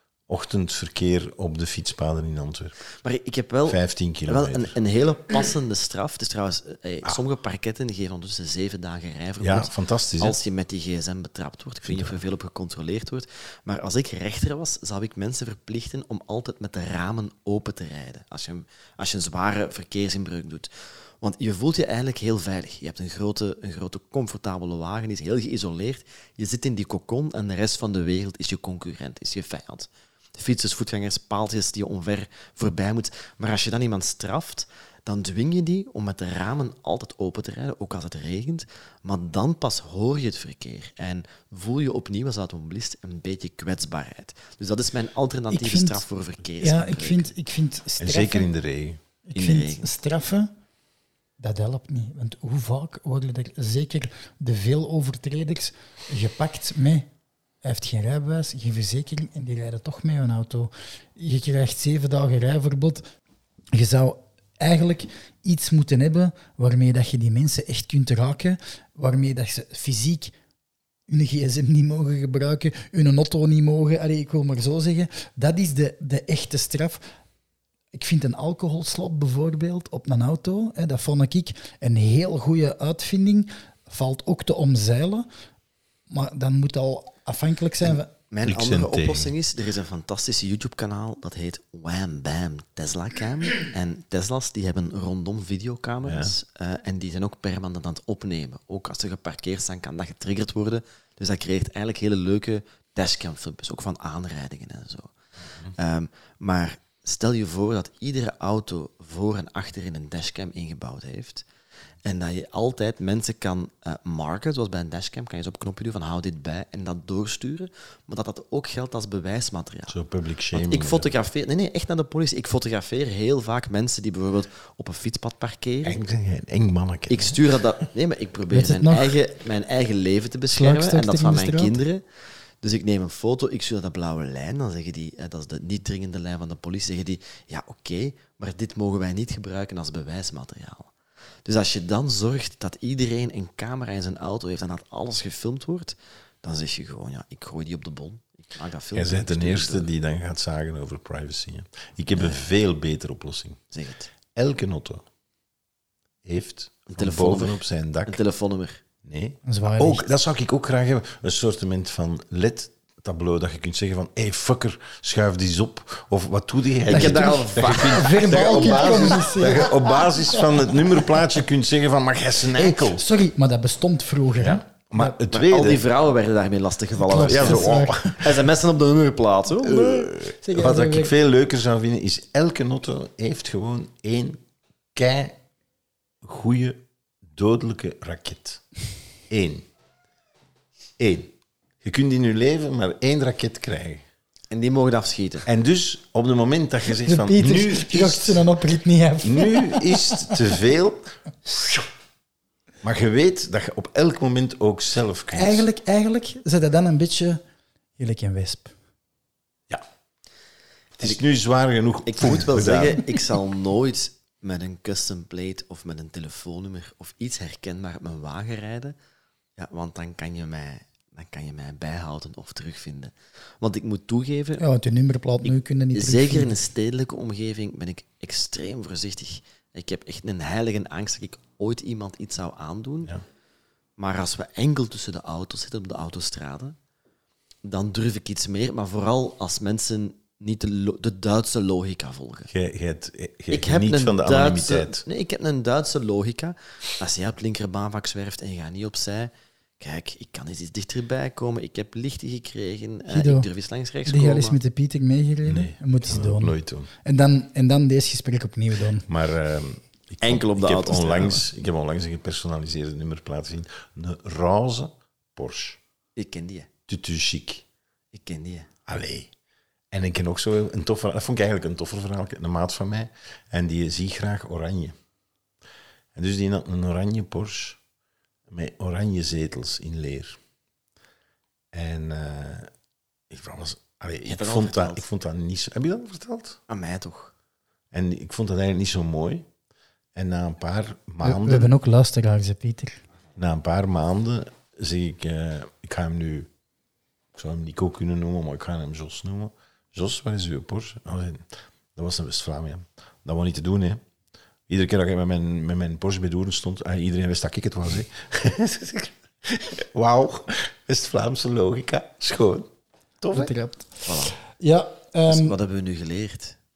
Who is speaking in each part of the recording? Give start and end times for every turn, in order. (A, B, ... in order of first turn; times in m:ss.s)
0:00.3-0:02.8 A
0:03.0-0:47.3 B
0:03.6-0:04.8 A
0:09.4-0:10.4 A
0:11.8-0:12.2 A
0:45.5-0:46.0 C
0:46.6-0:48.5 C
0:48.0-0:49.0 A
0:49.2-0:50.5 C
0:49.3-0:49.9 B
0:51.4-0:57.1 C
0:57.6-1:03.0 C
1:03.7-1:10.3 C
1:11.1-1:17.0 C
1:17.9-1:25.2 C
1:26.1-1:28.1 C
1:27.8-1:45.1 B
1:28.4-1:29.3 A
1:36.0-1:36.3 A
1:45.7-1:51.4 B
1:52.0-1:59.9 B
1:59.9-2:01.1 A
2:00.5-2:06.0 B
2:05.8-2:07.5 A
2:07.1-2:12.0 B
2:08.5-2:09.2 C
2:10.5-2:11.8 C
2:12.6-2:20.9 B
2:21.4-2:29.9 B
2:28.9-2:33.6 A
2:32.1-2:32.5 B
2:33.7-2:34.1 B
2:34.3-2:35.0 A
2:36.2-2:38.2 A
2:36.9-2:38.8 B
2:39.0-2:53.0 A
2:39.4-2:40.0 C
2:46.8-2:49.0 B
2:46.9-2:50.7 C
2:52.6-2:55.2 C
2:54.4-2:55.8 A
2:55.3-2:59.9 B
2:57.0-2:58.2 C
2:57.1-2:58.3 A
2:59.6-3:04.4 A
3:00.0-3:01.1 C
3:04.9-3:05.4 A
3:06.2-3:08.6 A
3:09.3-3:09.7 A
3:11.0-3:14.0 A
3:14.5-3:15.4 B
3:15.4-3:18.5 A
3:16.9-3:20.4 C
3:19.2-3:21.8 A
3:22.8-3:25.7 A
3:25.3-3:27.4 C
3:28.0-3:28.7 C
3:31.0-3:33.0 A
3:32.0-3:38.9 B
3:39.6-3:44.7 B
3:44.6-3:46.6 C
3:45.4-3:53.1 B
3:54.0-3:56.8 B
3:57.6-4:02.5 B
4:02.5-4:05.0 A
4:03.5-4:14.6 B
4:13.0-4:13.5 C
4:14.0-4:19.0 C
4:15.4-4:16.9 A
4:19.0-4:25.8 A
4:20.2-4:21.4 B
4:26.2-4:26.7 B
4:26.9-4:27.6 A
4:28.1-4:28.7 B
4:28.9-4:29.3 A
4:29.9-4:34.9 A
4:36.1-4:37.8 A
4:38.5-4:40.4 A
4:41.7-4:42.7 A
4:43.3-4:46.6 A
4:44.3-4:45.0 B
4:46.7-4:47.3 B
4:47.9-4:49.5 A
4:50.2-4:51.7 A
4:51.2-4:53.0 C
4:53.4-4:56.5 A
4:57.3-5:04.0 A
5:04.7-5:12.7 A
5:13.2-5:13.5 A
5:13.3-5:15.6 C
5:14.0-5:14.4 B
5:15.3-5:16.6 B